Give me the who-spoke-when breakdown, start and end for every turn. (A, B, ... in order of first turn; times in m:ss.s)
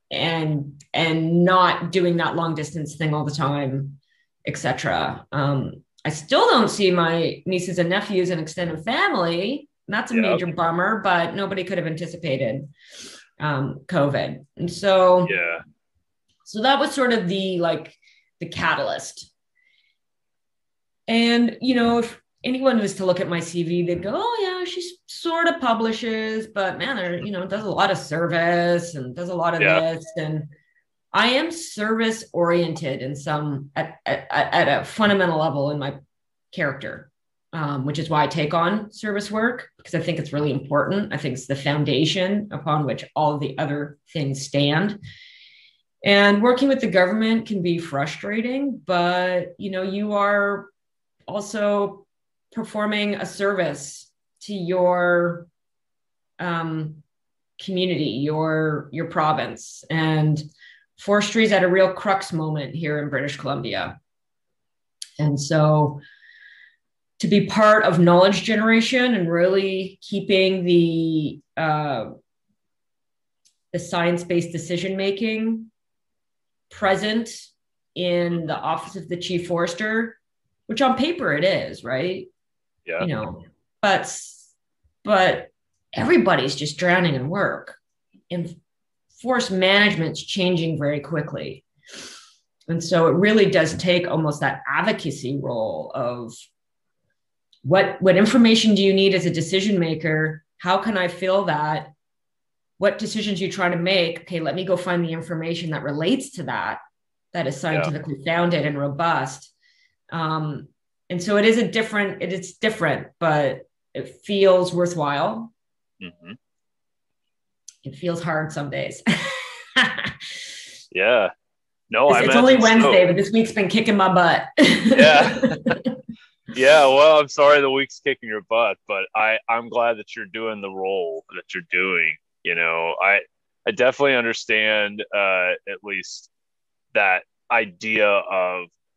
0:00.1-0:12.7 A
0:10.1-0:10.4 B
0:13.4-0:15.3 A
0:15.2-0:15.6 B
0:16.4-0:19.3 A
0:21.1-0:30.5 A
0:29.6-0:29.8 B
0:31.1-0:36.0 A
0:36.5-0:45.0 A
0:46.0-0:50.7 A
0:51.3-0:55.5 A
0:56.4-0:57.0 A
0:57.6-1:00.4 A
1:01.0-1:03.9 A
1:05.2-1:06.0 A
1:07.2-1:12.1 A
1:13.7-1:15.7 A
1:16.7-1:22.3 A
1:23.0-1:24.5 A
1:25.0-1:27.8 A
1:28.3-1:28.6 A
1:29.2-1:31.6 A
1:32.7-1:36.3 A
1:37.6-1:41.9 A
1:42.8-1:46.8 A
1:47.3-1:49.5 A
1:50.1-1:55.5 A
1:56.0-1:56.4 B
1:57.8-2:00.2 A
2:00.9-2:01.3 B
2:01.9-2:03.0 B
2:02.1-2:06.0 A
2:04.9-2:05.7 B
2:06.5-2:16.3 B
2:16.9-2:18.7 B